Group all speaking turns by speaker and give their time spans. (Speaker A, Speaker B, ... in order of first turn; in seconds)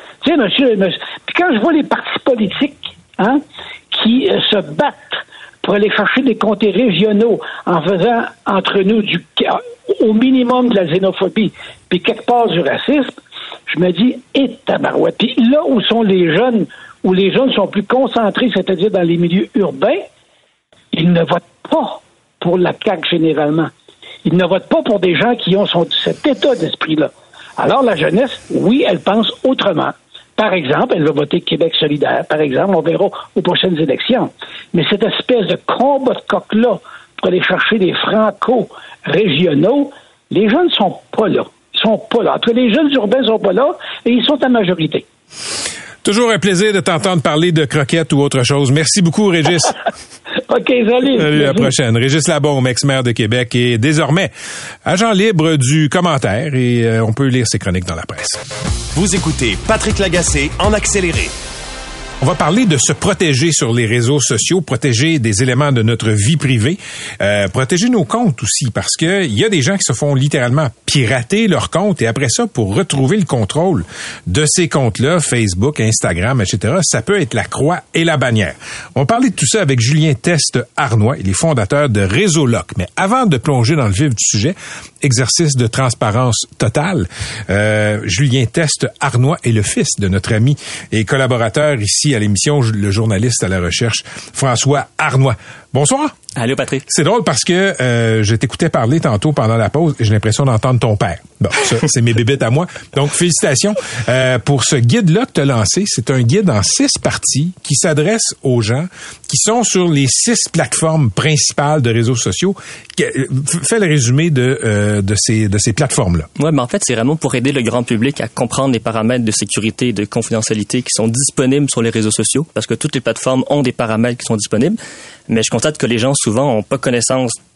Speaker A: 0.2-13.2, 13.7-20.1, 20.9-23.7, 24.2-45.0, 50.5-51.7
Speaker B: 46.0-49.7, 51.1-54.3, 54.8-58.4, 62.2-96.1, 96.9-116.3
Speaker C: 59.0-61.3
Speaker D: 96.4-96.8, 116.4-124.8, 125.3-127.4